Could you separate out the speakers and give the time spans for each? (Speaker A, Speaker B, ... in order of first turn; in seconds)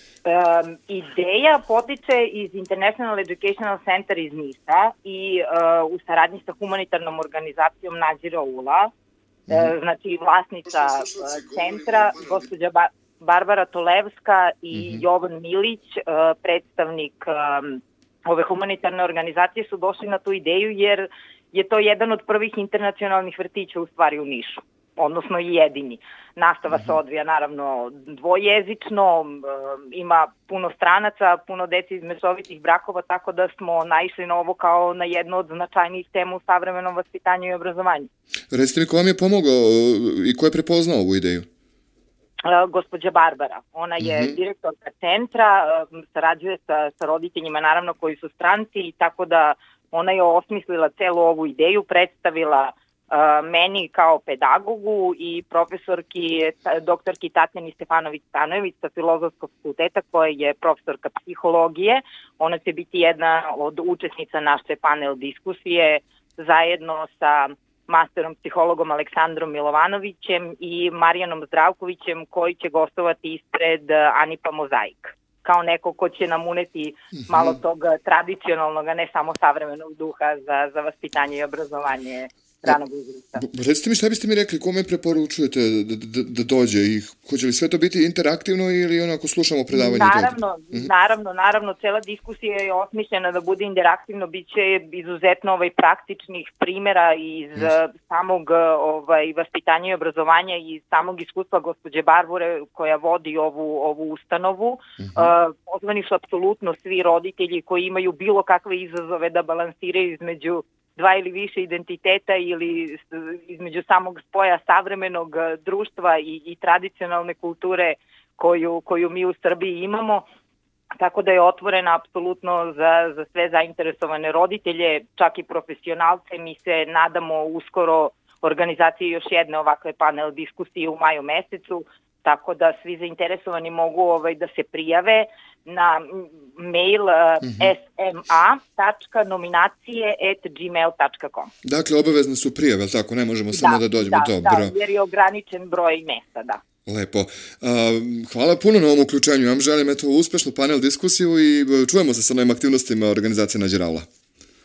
Speaker A: 0.2-8.9, 9.5-38.1, 42.4-83.4, 89.7-120.2, 121.0-141.5, 143.5-146.6
Speaker B: 38.5-41.5, 44.0-44.3, 83.4-90.9, 141.6-144.8, 146.9-154.1